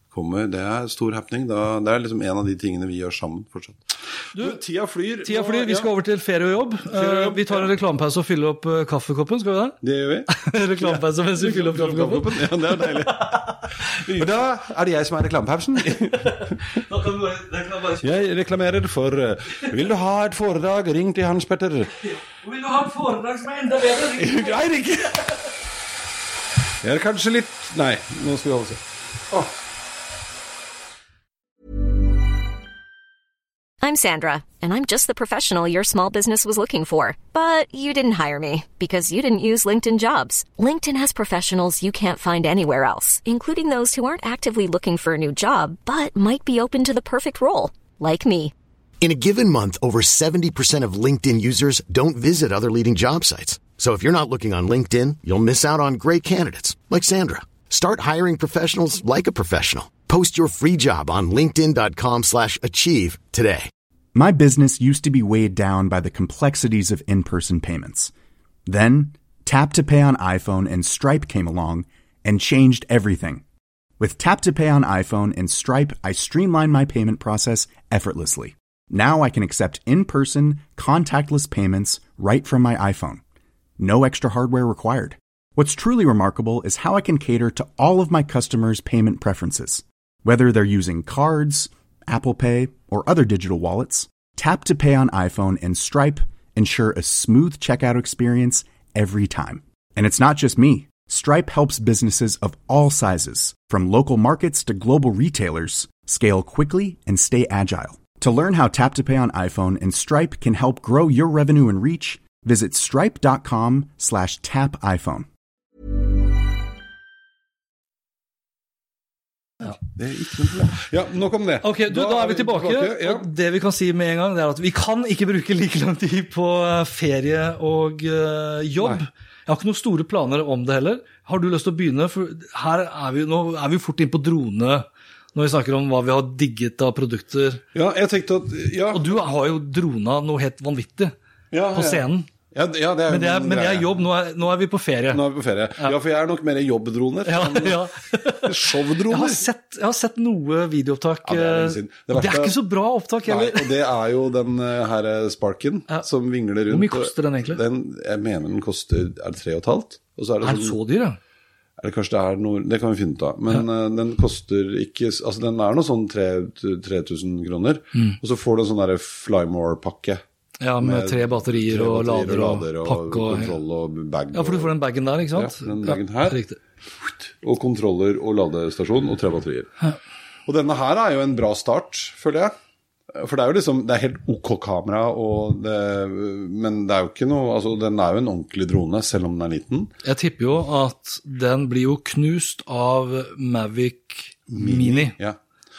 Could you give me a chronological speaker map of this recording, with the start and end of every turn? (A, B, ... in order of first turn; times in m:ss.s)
0:00.1-0:05.9 A
0:04.3-0:04.6 B
0:05.2-0:13.6 B
0:06.8-0:07.7 A
0:09.8-0:16.6 A
0:16.2-0:18.0 B
0:18.0-0:21.9 A
0:22.0-0:24.6 B
0:24.0-0:25.3 A
0:26.8-0:29.5 A
0:33.8-0:48.5 C
0:49.0-1:03.7 D
1:04.1-1:08.1 E
1:08.7-1:13.4 E
1:14.0-1:23.2 E
1:23.8-1:55.3 E
1:59.6-2:03.3 A
2:01.6-2:17.6 B
2:17.7-2:19.2 A
2:18.9-2:21.1 B
2:21.5-2:24.0 A
2:21.7-2:22.3 B
2:23.1-2:25.2 B
2:25.1-2:27.8 A
2:27.2-2:33.7 B
2:28.4-2:29.5 A
2:31.2-2:32.6 A
2:33.3-2:40.8 A
2:36.7-2:37.6 B
2:40.4-2:41.2 B
2:41.8-2:50.2 A
2:50.6-2:53.5 B
2:50.8-2:54.8 A
2:54.3-2:56.6 B
2:55.3-2:56.4 A
2:57.0-2:59.7 A
3:00.5-3:02.5 A
3:03.1-3:09.9 A
3:10.0-3:15.2 B
3:14.5-3:15.4 A